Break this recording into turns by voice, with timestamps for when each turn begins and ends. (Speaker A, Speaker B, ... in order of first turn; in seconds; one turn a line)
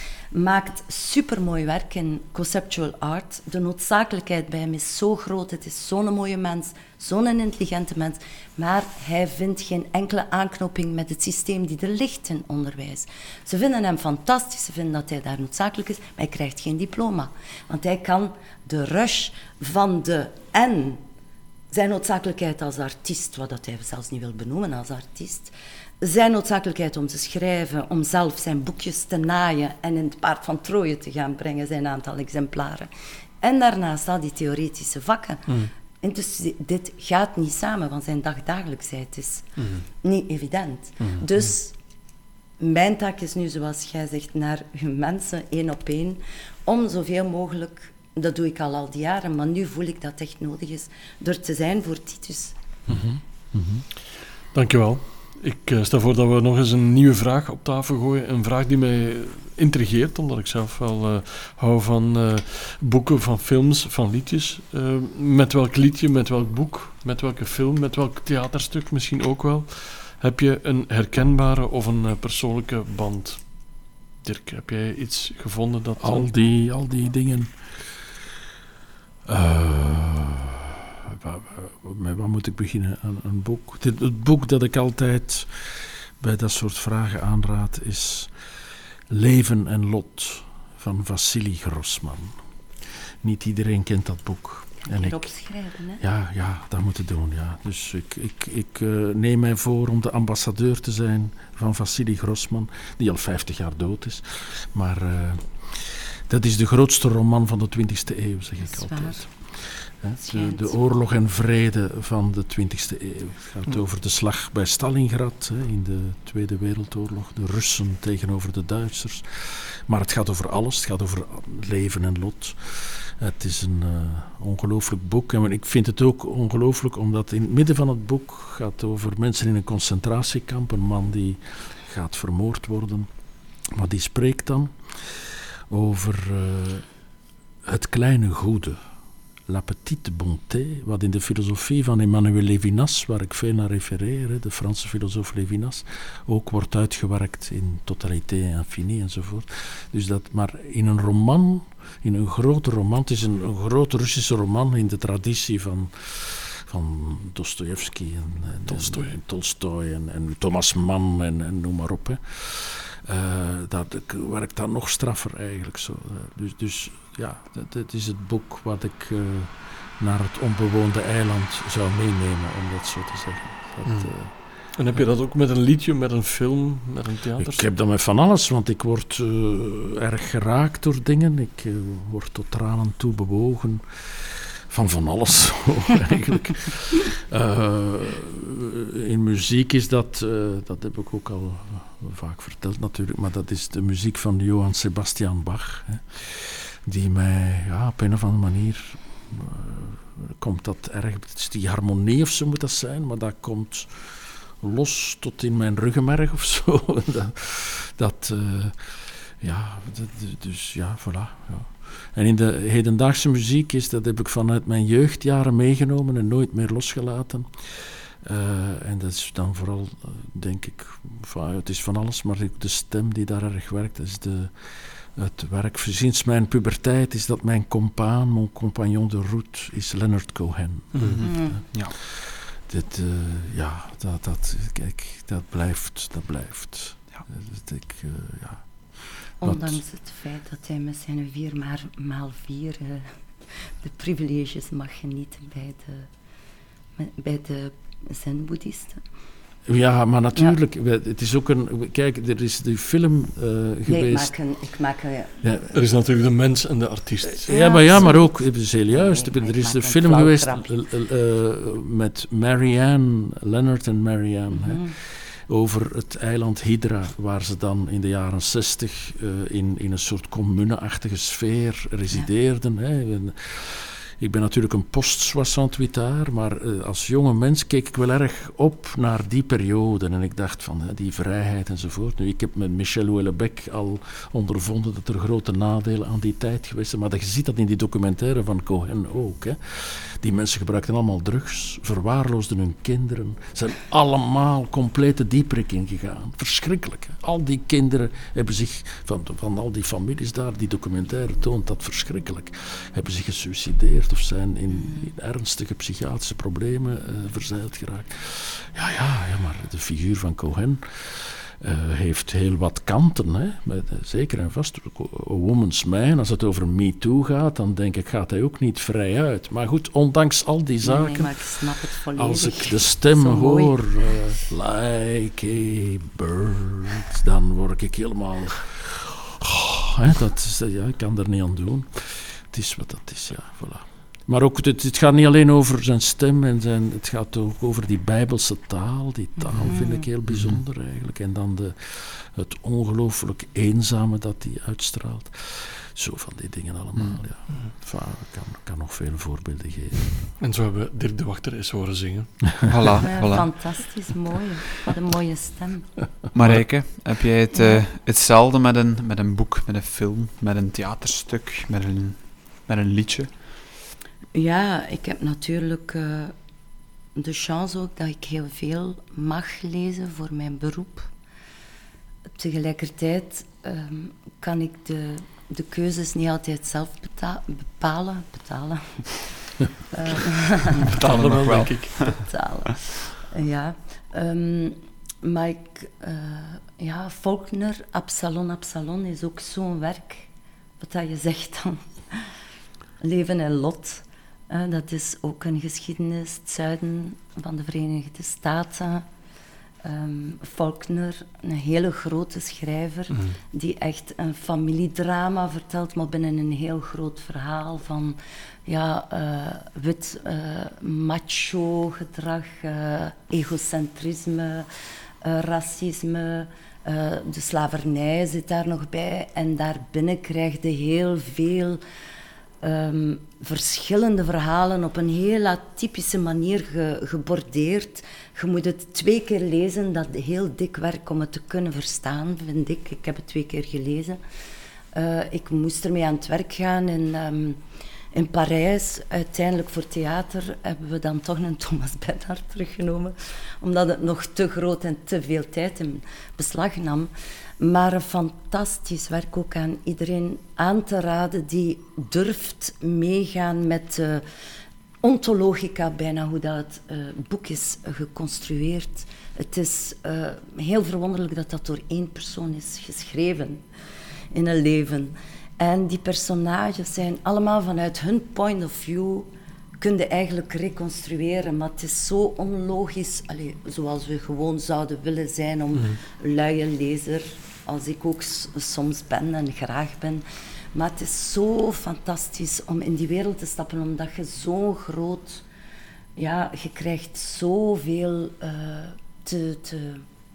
Speaker A: 0.3-21.0
Speaker A: 21.7-32.9
Speaker A: 33.4-35.5
Speaker A: 36.0-39.5
Speaker B: 39.6-39.8
Speaker A: 40.0-41.8
Speaker A: 42.6-52.6
Speaker C: 52.9-53.9
Speaker B: 54.5-76.3
Speaker C: 76.0-78.1
Speaker C: 79.3-88.3
Speaker C: 89.1-92.4
Speaker C: 93.2-95.2
Speaker A: 94.8-96.0
Speaker C: 96.0-133.1
Speaker A: 108.6-109.2
Speaker A: 110.2-110.8
Speaker C: 133.7-136.9
Speaker C: 137.6-138.8
Speaker C: 139.5-174.4
Speaker B: 158.7-159.1
Speaker B: 173.8-177.7
Speaker C: 177.4-239.8
Speaker B: 230.9-231.2
Speaker D: 231.0-232.0
Speaker A: 231.2-231.6
Speaker A: 239.4-246.1
Speaker A: 247.0-249.0
Speaker C: 249.7-254.3
Speaker A: 253.9-255.4
Speaker C: 255.4-255.7
Speaker B: 255.7-257.6
Speaker C: 257.4-321.6
Speaker A: 257.5-258.3
Speaker A: 258.9-260.7
Speaker A: 264.5-264.9
Speaker A: 320.8-323.8
Speaker C: 322.2-350.3
Speaker A: 339.6-340.1
Speaker D: 340.3-340.6
Speaker B: 350.4-353.0
Speaker D: 352.7-353.5
Speaker A: 353.0-355.9
Speaker D: 356.3-363.4
Speaker A: 364.3-366.3
Speaker A: 367.2-371.1
Speaker A: 372.4-380.9
Speaker D: 380.8-382.2
Speaker B: 380.9-382.3
Speaker A: 382.3-390.3
Speaker A: 390.8-392.3
Speaker A: 393.0-399.1
Speaker A: 399.8-414.7
Speaker A: 415.2-421.8
Speaker A: 422.6-434.2
Speaker A: 434.9-437.6
Speaker A: 438.1-454.2
Speaker A: 455.0-463.6
Speaker A: 464.3-485.4
Speaker A: 486.2-490.1